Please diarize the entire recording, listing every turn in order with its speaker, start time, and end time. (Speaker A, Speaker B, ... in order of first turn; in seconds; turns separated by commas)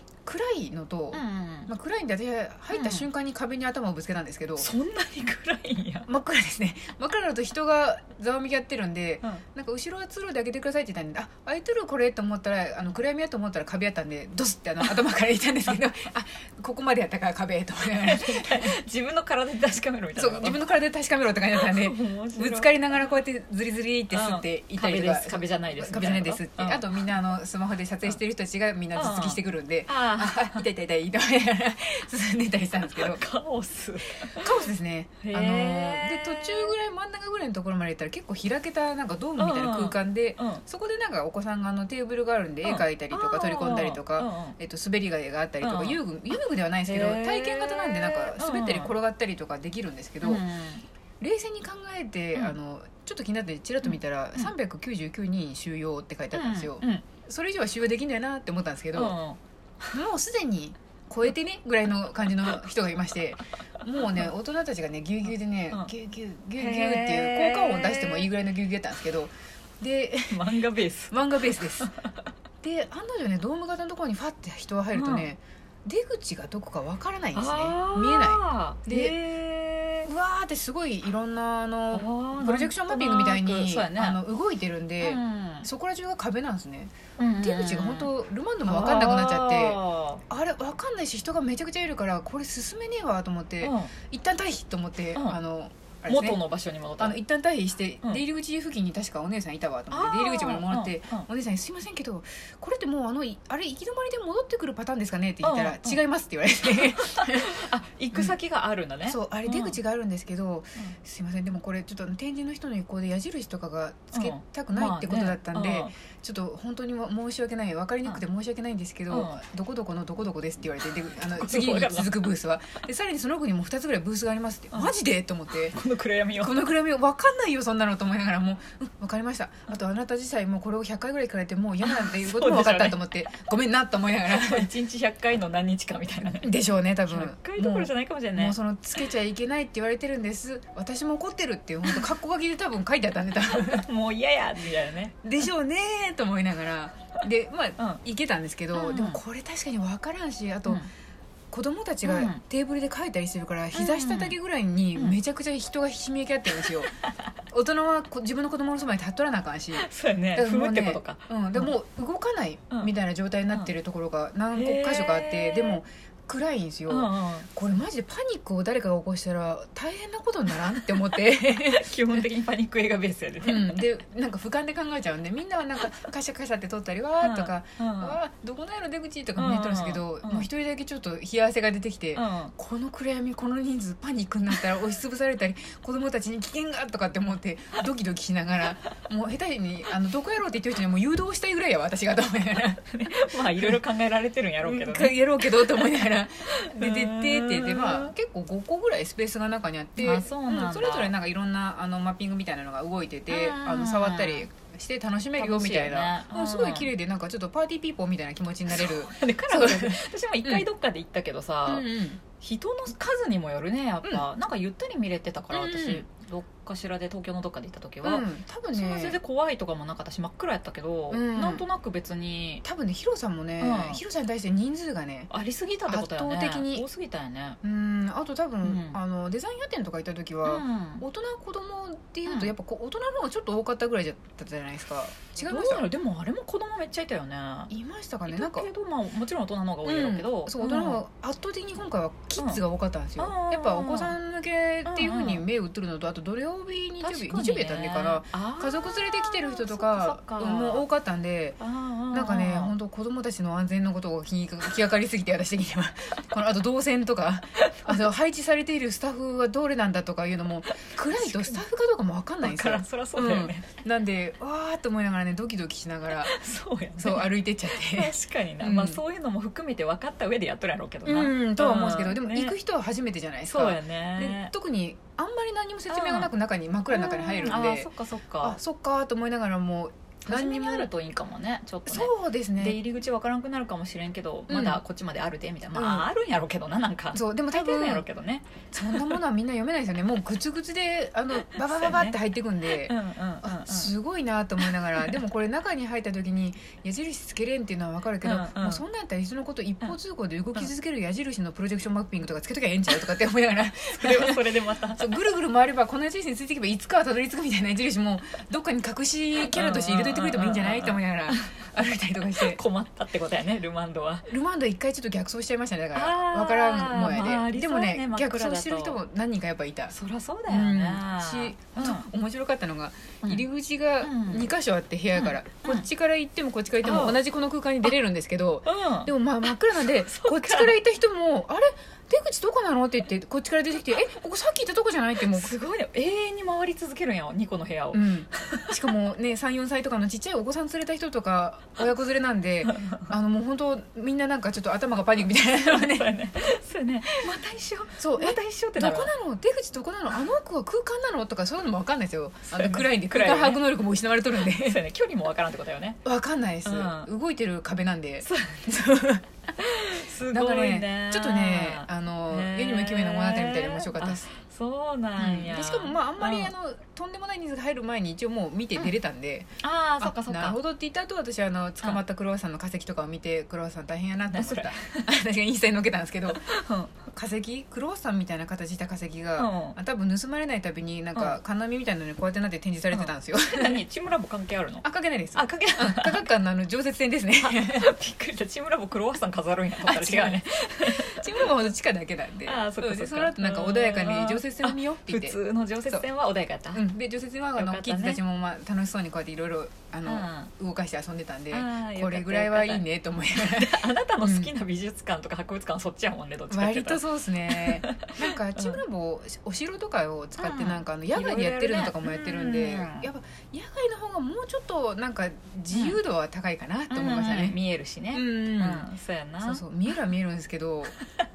Speaker A: 0.2-4.7, Speaker B: 1.1-1.7, Speaker B: 2.7-3.1, Speaker B: 4.6-6.1, Speaker A: 6.1-18.8, Speaker B: 17.9-20.6, Speaker A: 20.2-33.2, Speaker B: 21.6-22.8, Speaker B: 24.1-27.0, Speaker B: 28.9-30.6, Speaker B: 33.0-34.5, Speaker A: 34.3-50.4, Speaker B: 35.2-36.7, Speaker B: 39.4-40.6, Speaker B: 42.6-44.5, Speaker B: 45.6-48.9, Speaker B: 50.2-50.9, Speaker A: 51.2-59.2, Speaker B: 53.9-54.5, Speaker B: 56.3-57.1, Speaker B: 58.9-59.4, Speaker A: 59.9-70.6, Speaker B: 66.6-68.3, Speaker B: 70.3-72.1, Speaker A: 71.1-71.9, Speaker A: 72.6-79.2, Speaker B: 74.9-75.3, Speaker B: 77.3-80.1, Speaker A: 80.1-96.4, Speaker B: 81.9-84.2, Speaker B: 85.0-85.7, Speaker B: 87.2-88.1, Speaker B: 88.7-90.2, Speaker B: 93.6-93.9, Speaker B: 96.1-97.2, Speaker A: 97.0-107.6, Speaker B: 99.9-101.3, Speaker B: 105.4-106.0, Speaker B: 106.8-109.8, Speaker A: 109.0-125.8, Speaker B: 114.1-115.9, Speaker B: 119.1-119.4, Speaker B: 121.2-122.3, Speaker B: 125.5-126.6, Speaker A: 126.4-134.7, Speaker B: 131.8-133.0, Speaker B: 134.3-136.6, Speaker A: 136.4-143.9, Speaker B: 137.1-138.6, Speaker B: 143.5-145.2, Speaker A: 145.2-150.8, Speaker B: 148.7-149.2, Speaker A: 151.5-156.9, Speaker B: 152.1-152.4, Speaker B: 153.7-154.4, Speaker A: 157.5-172.2, Speaker B: 159.7-161.7, Speaker B: 164.5-165.8, Speaker B: 166.9-167.5, Speaker B: 170.9-173.8, Speaker A: 173.4-193.8, Speaker B: 177.2-178.2, Speaker B: 179.4-180.5, Speaker B: 182.2-182.5, Speaker B: 192.9-198.1, Speaker A: 194.6-210.7, Speaker B: 200.0-201.1, Speaker B: 203.3-204.5, Speaker B: 205.4-206.9, Speaker B: 208.7-222.6, Speaker A: 211.7-212.2, Speaker A: 215.5-216.0, Speaker A: 218.0-219.2, Speaker A: 221.1-221.7, Speaker A: 222.6-225.3, Speaker B: 223.6-224.0, Speaker B: 225.3-227.6, Speaker A: 225.9-226.9, Speaker A: 227.6-235.9, Speaker B: 228.6-229.0, Speaker B: 230.4-231.1, Speaker B: 232.3-232.5, Speaker B: 235.4-237.7, Speaker A: 237.7-238.7, Speaker B: 238.3-241.0, Speaker A: 239.8-251.6, Speaker B: 243.2-244.2, Speaker B: 244.9-245.4, Speaker B: 247.0-250.8, Speaker B: 251.6-252.7, Speaker A: 252.1-266.4, Speaker B: 257.7-258.0, Speaker B: 261.1-261.6, Speaker B: 262.4-263.7, Speaker B: 266.2-272.6, Speaker A: 267.0-269.0, Speaker A: 271.1-280.9, Speaker B: 273.5-274.5, Speaker B: 275.9-276.3, Speaker B: 276.9-278.6, Speaker B: 280.3-289.1, Speaker A: 281.9-282.8, Speaker A: 284.5-284.8, Speaker A: 285.7-286.1, Speaker A: 287.1-288.1, Speaker A: 288.7-312.6, Speaker B: 291.4-292.2, Speaker B: 292.8-293.9, Speaker B: 298.2-298.8, Speaker B: 303.9-305.2, Speaker B: 309.5-314.3, Speaker A: 314.3-319.9, Speaker B: 315.9-319.0, Speaker B: 319.9-322.1, Speaker A: 320.5-335.6, Speaker B: 324.0-324.5, Speaker B: 325.1-325.9, Speaker B: 326.8-327.2, Speaker B: 328.6-329.1, Speaker B: 330.1-330.8, Speaker B: 335.2-338.7, Speaker A: 337.9-346.1, Speaker B: 342.7-343.1, Speaker B: 345.6-349.1, Speaker A: 348.0-354.8, Speaker B: 352.5-353.8, Speaker B: 354.4-356.0, Speaker A: 356.1-359.2, Speaker B: 356.6-357.1, Speaker B: 358.2-358.8, Speaker B: 359.6-366.5, Speaker A: 360.3-364.3, Speaker A: 365.2-376.5, Speaker B: 369.6-370.6, Speaker B: 374.3-375.0, Speaker B: 376.3-376.9, Speaker A: 377.1-383.8, Speaker B: 379.4-379.8, Speaker B: 382.9-386.3, Speaker A: 384.8-387.9, Speaker B: 387.4-391.4, Speaker A: 389.8-396.1, Speaker B: 392.5-396.8, Speaker A: 396.7-404.5, Speaker B: 397.6-398.2, Speaker B: 400.1-400.5, Speaker B: 401.5-408.8, Speaker A: 406.5-417.6, Speaker B: 410.4-413.1, Speaker B: 415.7-416.0, Speaker B: 416.9-419.9, Speaker A: 418.1-418.9, Speaker A: 419.4-421.0